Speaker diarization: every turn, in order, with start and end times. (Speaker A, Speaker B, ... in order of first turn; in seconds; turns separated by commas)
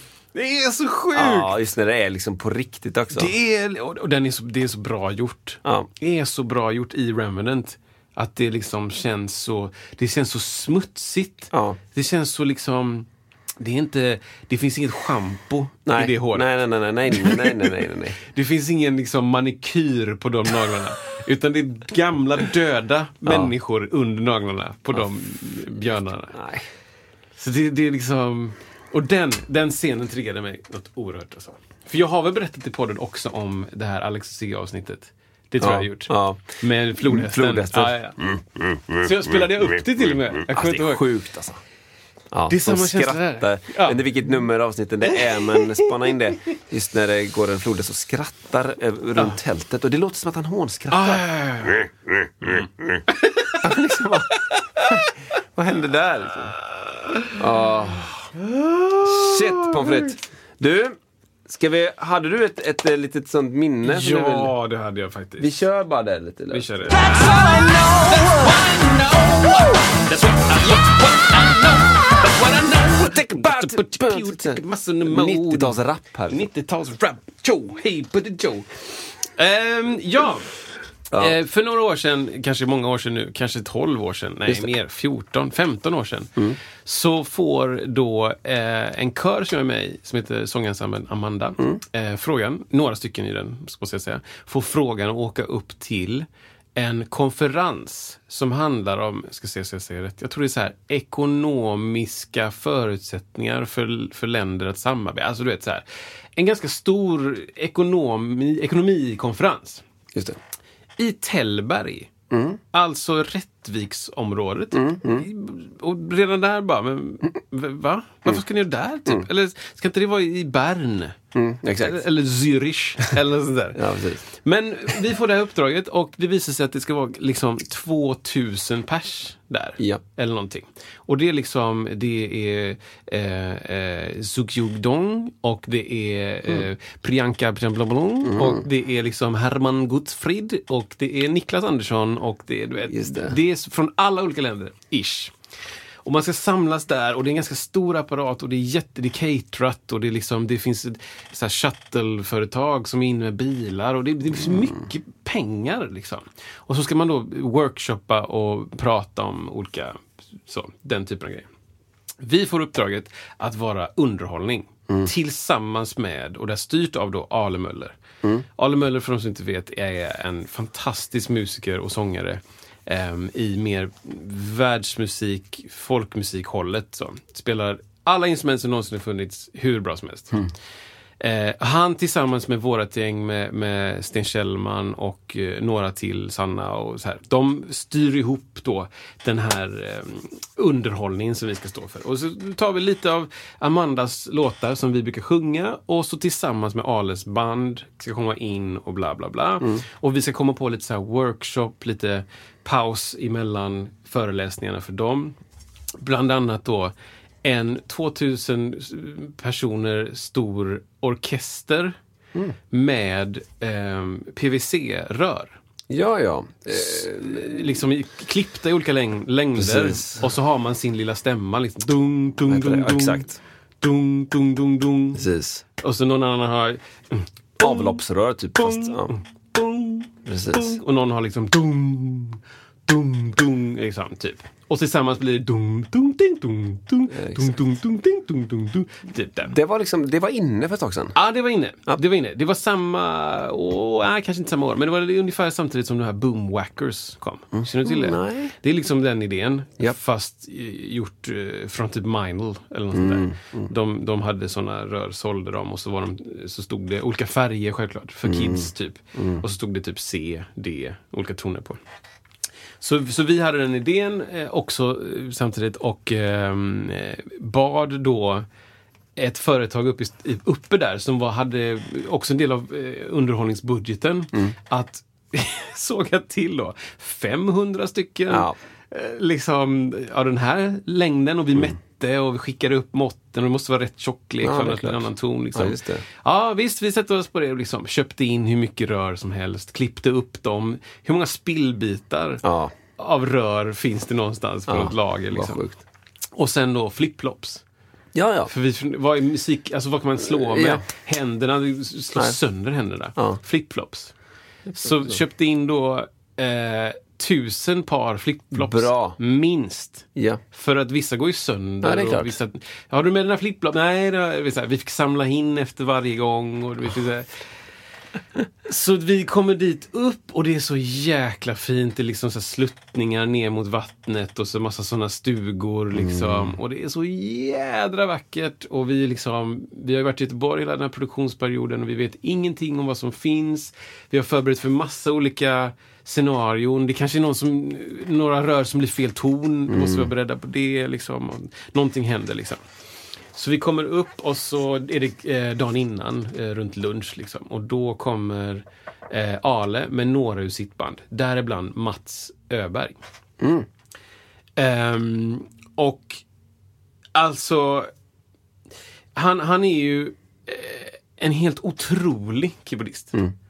Speaker A: 0.3-1.5, Speaker B: 1.1-3.3, Speaker A: 3.1-13.1, Speaker B: 11.5-11.8, Speaker A: 13.6-16.5, Speaker B: 15.9-18.2, Speaker A: 17.1-26.3, Speaker B: 23.3-23.5, Speaker B: 26.3-26.7, Speaker A: 27.4-38.2, Speaker B: 35.6-36.4, Speaker B: 37.0-39.0, Speaker A: 39.0-41.0, Speaker B: 40.5-41.6, Speaker B: 42.3-51.9, Speaker A: 42.5-44.0, Speaker A: 45.1-46.1, Speaker A: 50.9-51.9, Speaker B: 52.4-53.0, Speaker A: 52.5-53.6, Speaker B: 53.6-55.0, Speaker B: 55.5-56.6, Speaker A: 57.0-57.3, Speaker B: 57.4-58.3, Speaker A: 58.3-60.1, Speaker B: 59.0-64.5, Speaker A: 63.8-65.5, Speaker B: 65.4-68.8, Speaker A: 66.5-80.5, Speaker B: 69.3-69.9, Speaker B: 73.0-76.4, Speaker A: 81.2-105.8, Speaker A: 106.4-109.8, Speaker A: 111.0-112.1, Speaker B: 112.3-112.6, Speaker A: 112.7-121.2, Speaker B: 114.7-115.3, Speaker B: 121.3-122.0, Speaker A: 121.8-145.3, Speaker B: 123.8-124.2, Speaker B: 138.3-138.6, Speaker B: 142.9-143.4, Speaker A: 146.1-161.4, Speaker A: 162.2-167.9, Speaker A: 168.6-180.5, Speaker A: 181.2-205.4, Speaker A: 206.0-206.9, Speaker A: 207.4-211.9, Speaker A: 212.7-215.6, Speaker B: 215.9-217.8, Speaker A: 216.7-223.3, Speaker B: 219.6-220.3, Speaker B: 222.5-223.4, Speaker A: 223.8-225.2, Speaker B: 225.1-225.6, Speaker A: 225.8-228.0, Speaker B: 227.6-229.1, Speaker A: 228.6-239.6, Speaker B: 230.3-230.8, Speaker B: 237.1-237.6, Speaker B: 239.5-241.1, Speaker A: 241.1-261.8, Speaker B: 247.6-248.5, Speaker B: 252.9-253.7, Speaker B: 258.3-259.4, Speaker A: 262.8-268.4, Speaker A: 269.2-292.4, Speaker B: 278.3-278.6, Speaker B: 284.4-286.0, Speaker B: 292.4-292.7, Speaker A: 293.0-295.7, Speaker B: 294.7-295.8, Speaker A: 296.4-297.6, Speaker B: 298.1-298.5, Speaker A: 298.5-304.1, Speaker B: 300.4-300.8, Speaker A: 304.7-317.3, Speaker B: 308.6-309.2, Speaker B: 310.2-310.4, Speaker B: 311.8-312.3, Speaker A: 318.7-342.6, Speaker B: 325.9-326.6, Speaker B: 339.7-340.1, Speaker A: 343.3-352.9, Speaker B: 353.4-353.7, Speaker A: 354.6-356.2, Speaker A: 357.1-357.9, Speaker A: 359.2-363.1